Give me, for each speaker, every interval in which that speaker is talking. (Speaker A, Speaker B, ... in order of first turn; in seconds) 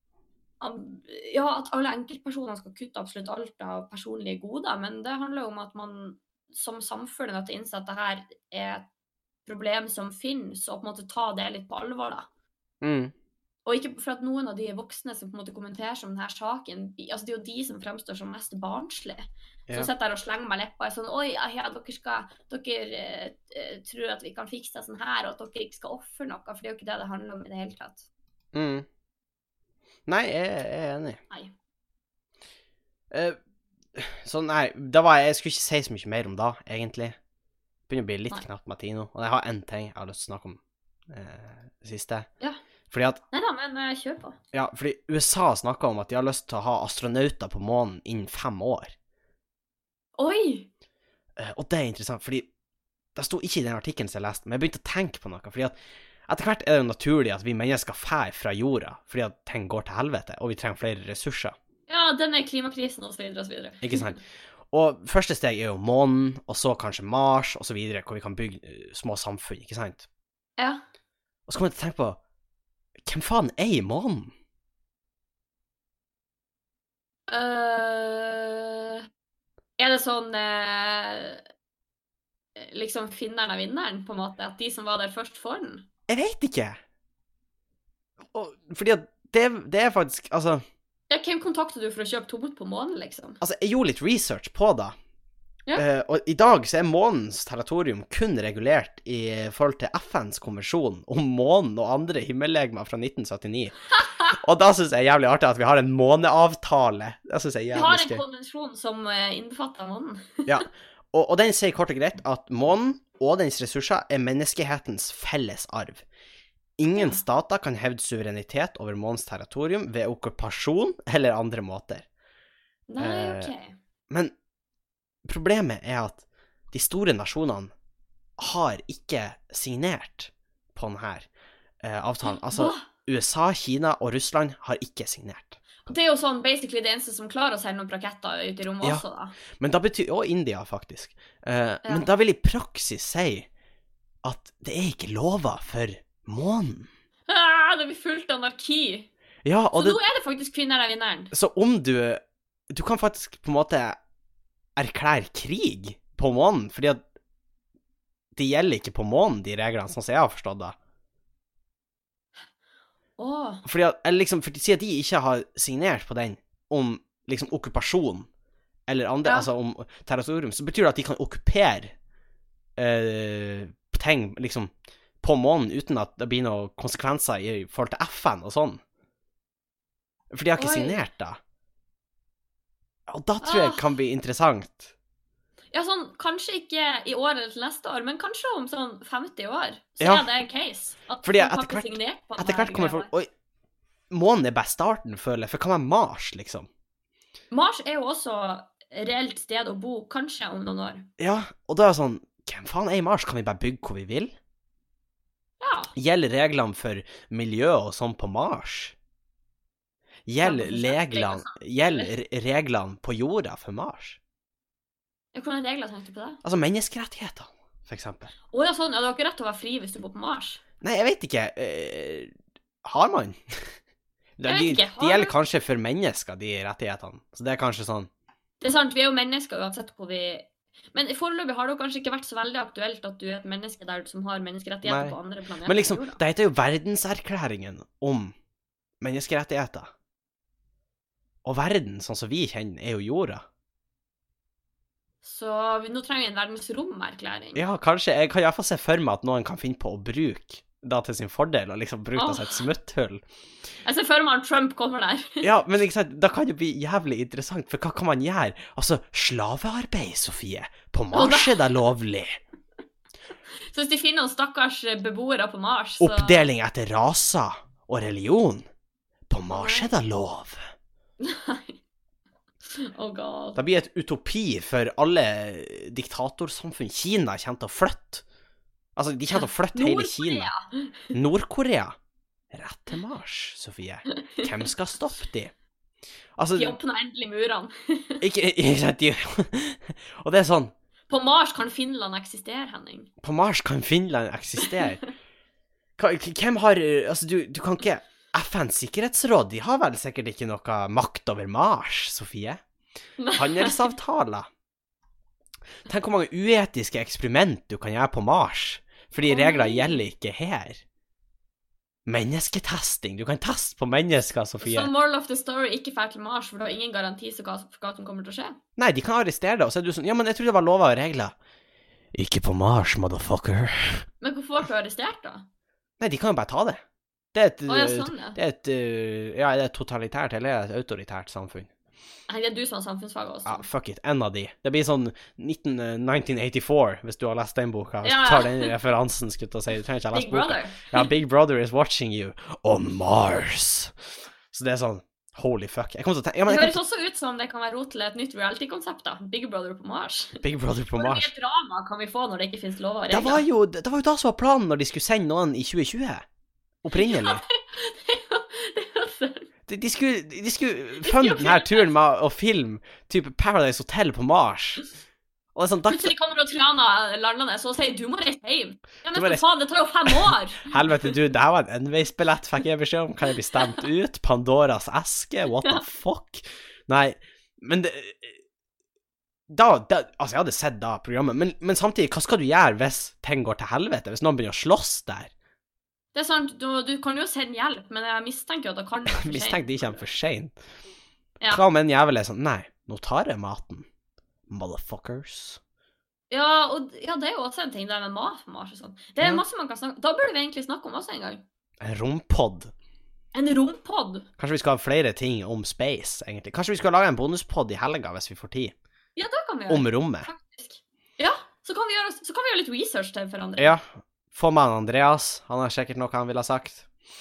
Speaker A: 0.6-8.9, 9.4-12.3, 13.7-28.1, 43.3-44.4, 50.2-50.7, 61.9-64.0, 70.6-70.8, 77.3-79.0, 79.8-81.4, 82.6-85.8, 91.1-93.4, 107.7-110.5, 117.0-117.2, 122.9-123.8, 132.2-132.9, 135.8-139.4, 147.3-149.1, 149.8-151.3, 163.2-163.6, 180.6-181.0, 183.4-183.8, 185.7-193.1, 197.5-201.1, 205.6-205.9, 210.4-212.1, 215.3-216.4, 218.5-220.6, 224.5-225.3, 228.6-236.2, 245.2-247.6, 252.2-252.6, 253.8-255.5, 261.1-261.8, 263.6-266.5, 269.5-269.9, 271.2-271.8, 272.6-273.6, 279.3-281.1, 286.6-288.2, 291.1-293.1, 294.6-295.0, 303.2-303.7, 309.3-310.0, 314.6-318.6, 324.2-325.4, 327.7-328.4, 332.3-333.6, 338.0-338.7, 340.1-341.1, 346.5-353.4, 356.9-359.5, 361.0-361.9, 365.9-370.7, 386.1-390.0, 396.3-401.4, 403.3-404.3, 409.1-413.7
Speaker B: 12.8-13.1, 28.5-28.9, 30.1-31.2, 33.1-33.4, 34.0-37.2, 37.9-42.3, 42.9-43.2, 44.5-48.9, 51.4-52.5, 53.1-55.8, 56.3-61.5, 63.8-64.2, 64.7-70.1, 71.5-72.2, 73.0-74.3, 86.1-86.8, 88.3-90.6, 93.4-94.9, 95.7-108.2, 110.5-116.0, 116.8-122.0, 123.0-123.5, 125.2-127.7, 128.4-131.3, 131.8-135.6, 139.6-143.5, 144.2-146.9, 149.4-150.0, 151.3-152.2, 152.7-154.0, 154.8-157.0, 158.4-160.8, 163.6-168.3, 168.9-171.9, 172.8-178.8, 180.3-181.4, 183.1-184.9, 190.0-190.3, 191.2-193.3, 194.1-196.7, 201.2-204.3, 205.9-208.9, 210.3-214.2, 216.4-218.3, 220.8-222.3, 222.8-223.7, 224.4-228.1, 234.8-238.3, 239.0-239.9, 241.4-243.4, 247.6-253.2, 255.4-262.4, 266.0-268.6, 269.3-270.7, 273.6-278.2, 278.9-280.5, 281.1-281.9, 282.5-285.5, 286.4-286.8, 288.2-290.7, 293.2-295.0, 296.0-302.6, 303.3-304.5, 305.9-310.8, 312.1-314.9, 318.8-321.3, 322.1-324.1, 326.0-326.8, 327.3-331.7, 333.4-343.9, 344.5-346.8, 350.4-351.3, 353.1-356.2, 356.8-357.4, 359.7-364.9, 365.6-366.1, 369.1-369.4, 370.1-378.4, 379.5-385.3, 389.1-390.6, 391.5-393.9, 394.5-395.6, 401.8-402.7, 404.4-408.7, 409.7-410.3, 413.6-416.9